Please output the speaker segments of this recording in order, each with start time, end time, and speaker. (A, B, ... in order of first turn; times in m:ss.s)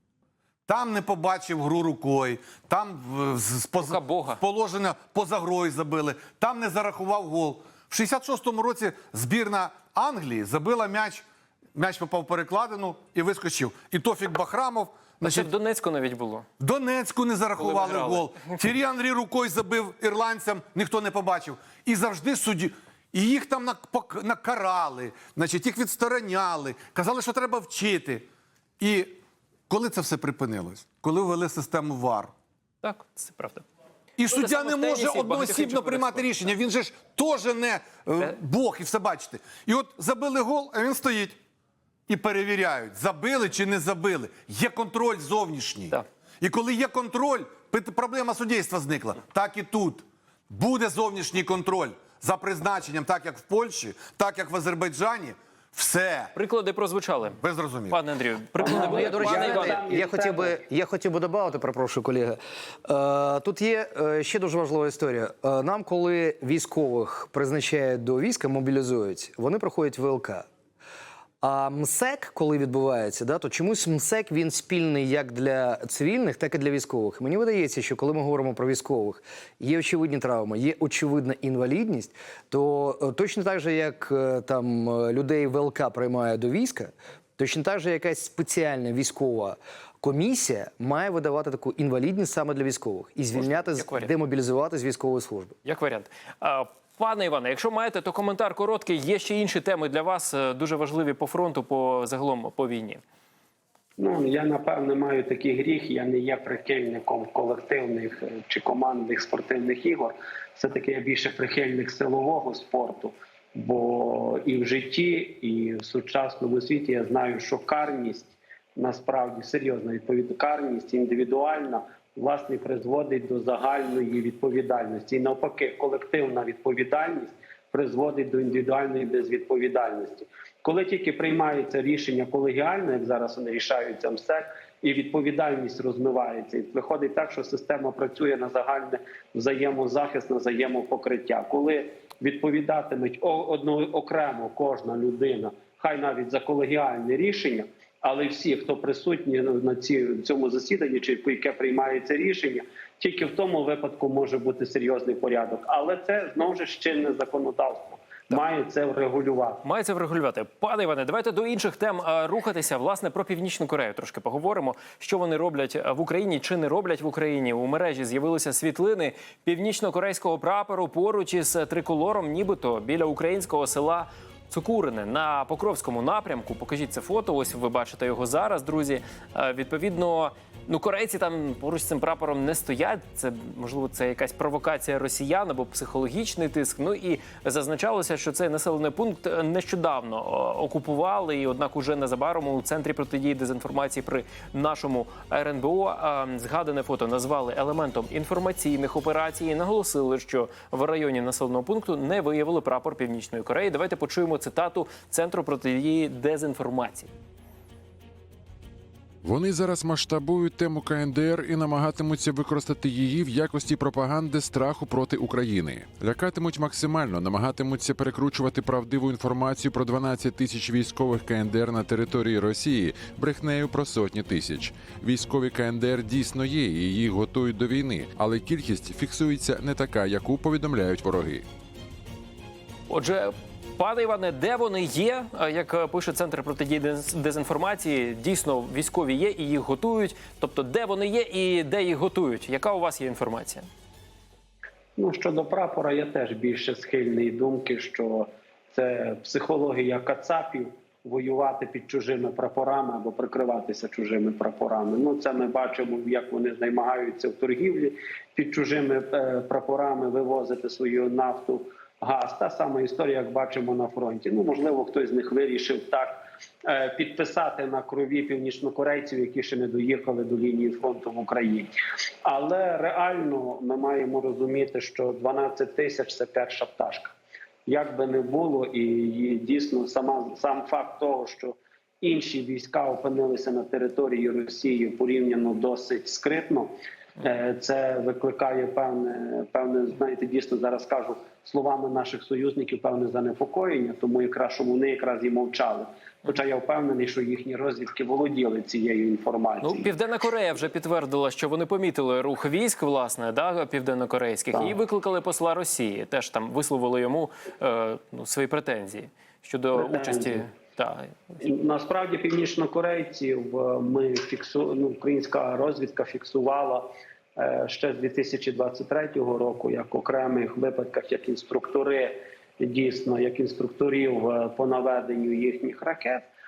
0:00.7-0:15.5 A
0:03.8-0:04.4 B
0:15.2-0:16.5 B
0:16.6-0:28.3 A
0:17.6-0:18.3 B
0:28.8-0:32.3 A
0:32.8-0:33.6 B
0:34.2-0:41.4 A
0:34.3-0:36.5 B
0:42.1-0:56.3 A
0:56.4-0:59.8 B
0:57.4-0:58.0 A
0:58.6-1:00.6 C
0:58.6-1:10.5 D
1:11.4-1:35.6 D
1:33.3-1:34.1 B
1:35.6-1:43.0 B
1:44.0-2:39.6 C
2:39.6-3:27.1 B
3:29.2-3:51.4 E
3:52.9-4:03.7 B
4:05.0-4:31.7 C
4:32.2-4:37.1 C
4:37.7-4:59.9 C
4:59.6-5:11.4 B
5:04.5-5:04.8 C
5:09.7-5:10.5 C
5:11.4-5:26.3 C